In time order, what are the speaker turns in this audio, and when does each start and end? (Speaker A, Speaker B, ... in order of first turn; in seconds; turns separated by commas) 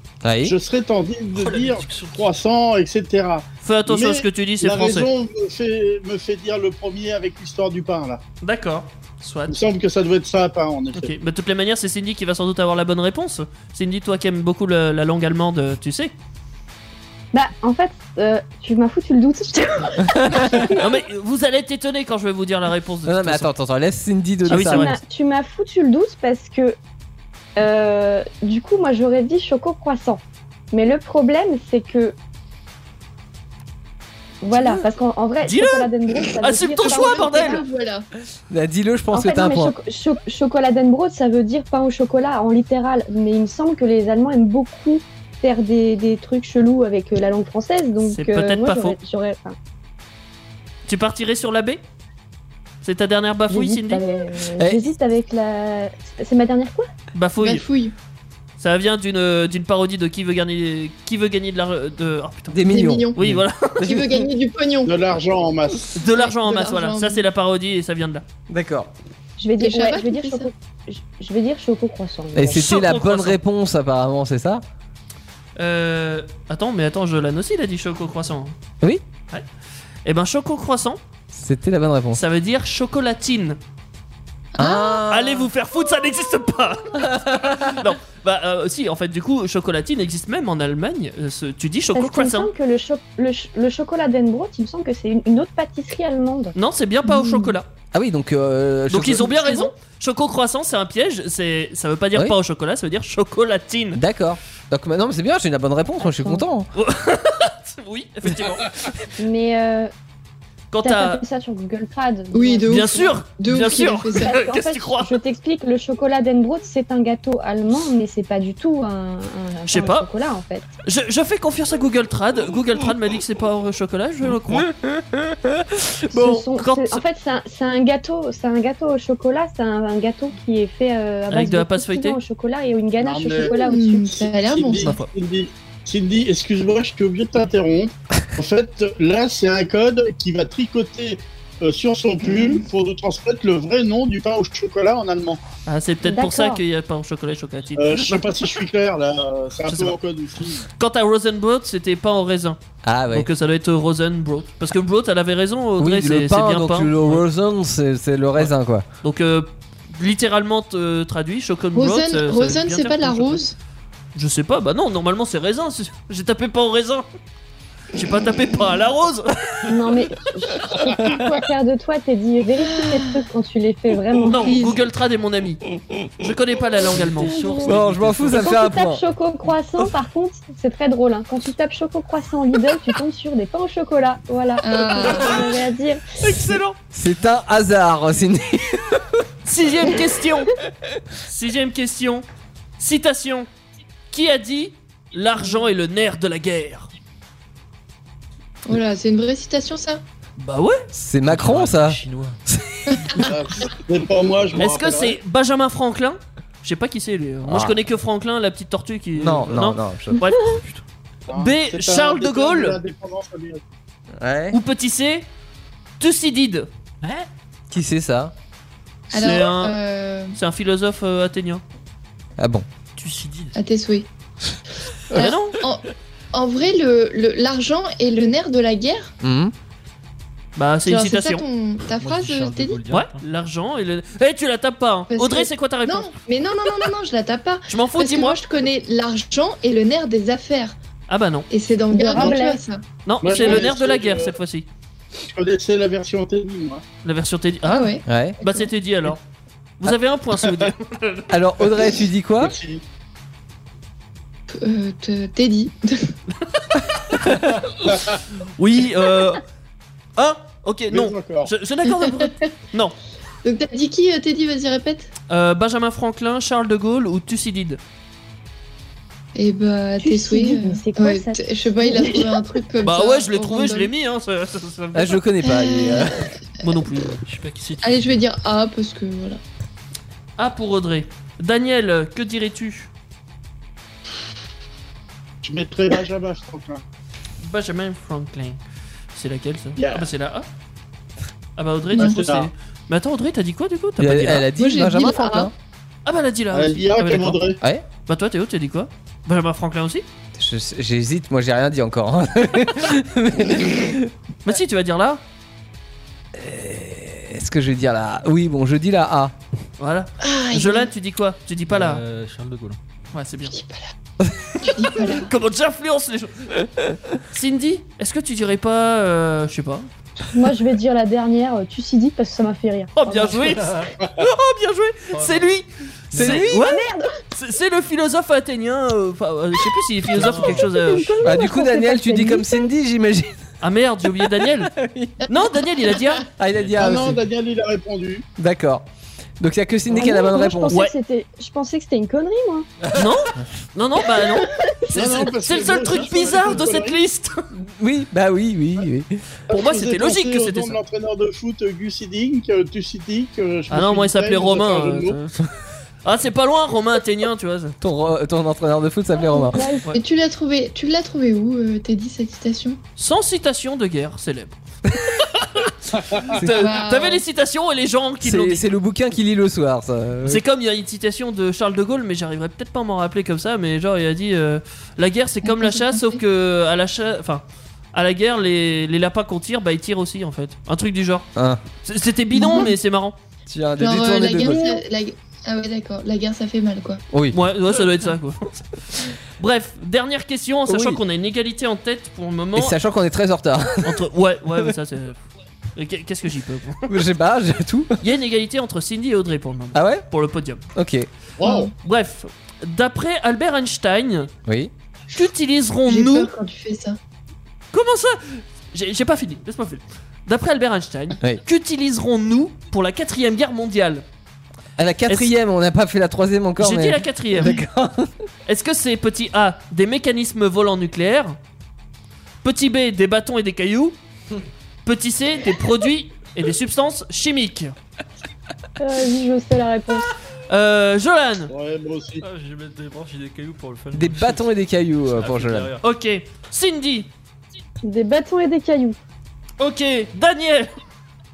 Speaker A: 0.2-0.5, Speaker B: 0.4-8.2, Speaker C: 1.4-1.7, Speaker D: 1.4-2.2, Speaker C: 3.6-5.1, Speaker C: 8.4-9.6, Speaker B: 9.5-11.1, Speaker C: 10.9-16.1, Speaker E: 17.3-20.8, Speaker A: 20.1-20.7, Speaker C: 20.7-23.5, Speaker A: 23.0-24.9, Speaker C: 24.5-24.9, Speaker E: 24.5-26.8, Speaker E: 27.6-32.1, Speaker E: 34.4-37.6, Speaker C: 35.4-37.6, Speaker F: 36.8-38.1, Speaker A: 38.5-39.7, Speaker E: 39.1-49.6, Speaker C: 48.1-49.0, Speaker C: 50.9-51.8, Speaker C: 52.8-54.0, Speaker E: 53.5-56.9, Speaker A: 54.6-54.8, Speaker C: 57.1-57.6, Speaker F: 57.4-57.9, Speaker C: 58.6-62.6, Speaker A: 62.5-63.1, Speaker F: 62.6-63.2, Speaker C: 63.1-63.9, Speaker A: 63.8-64.2, Speaker F: 63.8-64.9, Speaker B: 64.8-65.9, Speaker C: 65.9-68.2, Speaker F: 66.0-67.2, Speaker A: 68.5-68.9, Speaker E: 69.4-72.7, Speaker F: 69.6-70.5, Speaker A: 72.3-74.6, Speaker C: 72.5-73.4, Speaker C: 75.6-78.5, Speaker C: 80.0-81.0, Speaker A: 81.3-82.2, Speaker C: 82.1-83.6, Speaker F: 84.5-85.0, Speaker A: 84.6-85.5, Speaker C: 85.1-92.5, Speaker A: 87.0-87.8, Speaker E: 91.9-96.5, Speaker C: 96.5-97.7, Speaker E: 97.0-97.5, Speaker A: 97.9-99.5, Speaker C: 98.9-104.0, Speaker A: 103.9-106.7, Speaker E: 106.0-106.5, Speaker C: 106.7-108.7, Speaker E: 109.2-109.9, Speaker C: 110.7-111.2, Speaker E: 110.8-113.0, Speaker F: 112.3-114.3, Speaker C: 112.7-115.1, Speaker E: 114.2-120.6, Speaker C: 119.7-120.1, Speaker C: 120.8-124.7, Speaker A: 124.5-126.5, Speaker E: 126.1-134.1, Speaker C: 126.6-127.0, Speaker C: 131.3-132.2, Speaker B: 133.0-145.4, Speaker F: 133.7-134.9, Speaker C: 134.8-135.1, Speaker C: 145.7-148.1, Speaker E: 146.0-146.6, Speaker B: 147.8-150.7, Speaker C: 149.7-149.9, Speaker C: 150.8-152.6, Speaker A: 152.8-153.3, Speaker C: 153.1-157.2, Speaker A: 155.8-158.8, Speaker C: 159.0-163.4, Speaker F: 161.7-163.5, Speaker C: 164.1-167.0, Speaker C: 167.9-169.7, Speaker E: 169.7-174.6, Speaker A: 171.0-171.3, Speaker F: 172.6-173.2, Speaker C: 174.3-175.6, Speaker F: 174.4-174.8, Speaker C: 176.2-177.5, Speaker E: 177.0-186.0, Speaker D: 177.2-178.4, Speaker A: 177.6-179.0, Speaker F: 184.6-185.4, Speaker C: 186.2-186.8, Speaker A: 186.9-189.2, Speaker C: 189.4-190.5, Speaker C: 191.2-192.2, Speaker C: 192.8-193.5, Speaker C: 194.1-196.9, Speaker F: 198.7-200.0, Speaker C: 200.4-200.9, Speaker A: 200.9-203.2, Speaker D: 201.2-202.4, Speaker F: 202.9-203.2, Speaker B: 203.2-205.2, Speaker C: 204.6-210.6, Speaker A: 207.4-207.8, Speaker A: 209.1-210.2, Speaker D: 210.4-210.8, Speaker B: 211.3-213.6, Speaker C: 211.3-212.8, Speaker A: 214.2-214.6, Speaker C: 214.5-215.2, Speaker C: 216.0-216.7, Speaker D: 217.0-217.3, Speaker A: 217.7-218.3, Speaker C: 219.1-219.8, Speaker F: 219.1-220.4, Speaker C: 220.3-221.6, Speaker A: 222.4-222.7, Speaker D: 222.9-223.6, Speaker F: 223.6-224.1, Speaker F: 225.1-229.1, Speaker C: 225.1-225.6, Speaker A: 229.2-229.5, Speaker C: 230.6-231.4, Speaker F: 230.8-232.8, Speaker D: 231.9-233.2, Speaker C: 232.9-236.1, Speaker F: 235.1-240.8, Speaker C: 237.7-238.4, Speaker C: 241.1-241.5, Speaker F: 241.5-242.8, Speaker E: 241.9-242.6, Speaker C: 243.1-244.7, Speaker B: 243.2-244.3, Speaker F: 243.4-243.7, Speaker B: 245.2-246.8, Speaker C: 247.0-249.2, Speaker F: 247.7-248.7, Speaker A: 248.1-248.4, Speaker C: 249.8-251.3, Speaker A: 251.3-252.5, Speaker B: 252.4-252.8, Speaker F: 254.5-256.1, Speaker C: 256.7-257.0, Speaker C: 258.4-259.4, Speaker C: 260.1-262.9, Speaker B: 260.9-261.5, Speaker F: 261.9-262.4, Speaker F: 263.4-265.1, Speaker C: 265.3-267.8, Speaker F: 269.3-273.9, Speaker E: 270.0-272.4, Speaker C: 272.8-275.2, Speaker A: 274.9-276.3, Speaker F: 275.4-276.7, Speaker C: 276.6-277.2, Speaker D: 277.2-278.2, Speaker F: 277.8-279.4, Speaker C: 280.4-282.9, Speaker B: 285.4-286.8, Speaker C: 287.4-288.6, Speaker C: 289.1-290.5, Speaker B: 289.8-290.1, Speaker C: 291.6-294.5, Speaker B: 292.0-292.5, Speaker A: 294.0-295.5, Speaker F: 294.6-295.5, Speaker C: 296.0-297.4, Speaker B: 296.5-297.6, Speaker C: 298.1-300.0, Speaker A: 300.4-304.1, Speaker C: 304.4-305.2, Speaker A: 306.3-309.3, Speaker C: 309.8-312.0, Speaker F: 310.2-310.9, Speaker D: 311.7-312.8, Speaker C: 313.1-313.5, Speaker F: 313.5-313.9, Speaker F: 314.6-315.3, Speaker C: 314.9-319.9, Speaker E: 320.3-323.4, Speaker C: 322.9-331.2, Speaker D: 323.6-323.9, Speaker D: 325.1-325.4, Speaker D: 326.1-326.5, Speaker A: 326.1-326.6, Speaker E: 326.5-327.1, Speaker D: 330.1-330.8, Speaker E: 330.7-332.7, Speaker A: 331.2-333.4, Speaker C: 333.6-334.7, Speaker A: 334.2-335.2, Speaker C: 335.3-336.2, Speaker A: 336.4-337.2, Speaker D: 336.5-337.2, Speaker B: 336.8-338.2, Speaker A: 338.4-338.8, Speaker A: 339.4-340.8, Speaker E: 339.9-342.7, Speaker C: 342.9-347.4, Speaker B: 344.9-347.0, Speaker A: 347.5-349.2, Speaker C: 349.5-350.8, Speaker B: 349.5-355.2, Speaker C: 353.7-355.5, Speaker C: 356.0-357.8, Speaker A: 357.8-359.7, Speaker E: 359.1-359.9, Speaker F: 359.9-362.8, Speaker C: 363.0-368.6, Speaker A: 366.3-366.8, Speaker F: 366.5-367.2, Speaker A: 368.2-370.4, Speaker C: 370.2-381.3, Speaker F: 375.4-376.2, Speaker A: 381.4-381.6, Speaker C: 381.8-383.1, Speaker F: 382.3-382.7, Speaker A: 383.5-384.6, Speaker F: 383.8-387.0, Speaker A: 387.1-387.4, Speaker C: 387.3-392.8, Speaker A: 390.7-391.0, Speaker A: 392.5-394.0, Speaker C: 393.8-395.2, Speaker C: 395.7-397.0, Speaker A: 396.9-398.0, Speaker C: 398.0-400.6, Speaker A: 399.7-400.1, Speaker A: 400.7-401.1, Speaker B: 401.4-401.7, Speaker F: 401.4-401.7, Speaker C: 401.8-404.3, Speaker A: 404.4-404.7, Speaker C: 405.1-406.3, Speaker F: 405.9-407.0, Speaker C: 407.7-414.0, Speaker A: 414.8-418.1, Speaker C: 416.6-417.6, Speaker C: 418.5-421.4, Speaker C: 422.4-424.0, Speaker C: 424.8-427.7, Speaker E: 428.8-430.1, Speaker C: 430.5-431.5, Speaker B: 431.5-432.2, Speaker D: 432.2-434.5, Speaker A: 433.9-435.7, Speaker D: 435.1-435.8, Speaker C: 435.8-437.1, Speaker E: 437.8-439.0, Speaker C: 439.6-440.7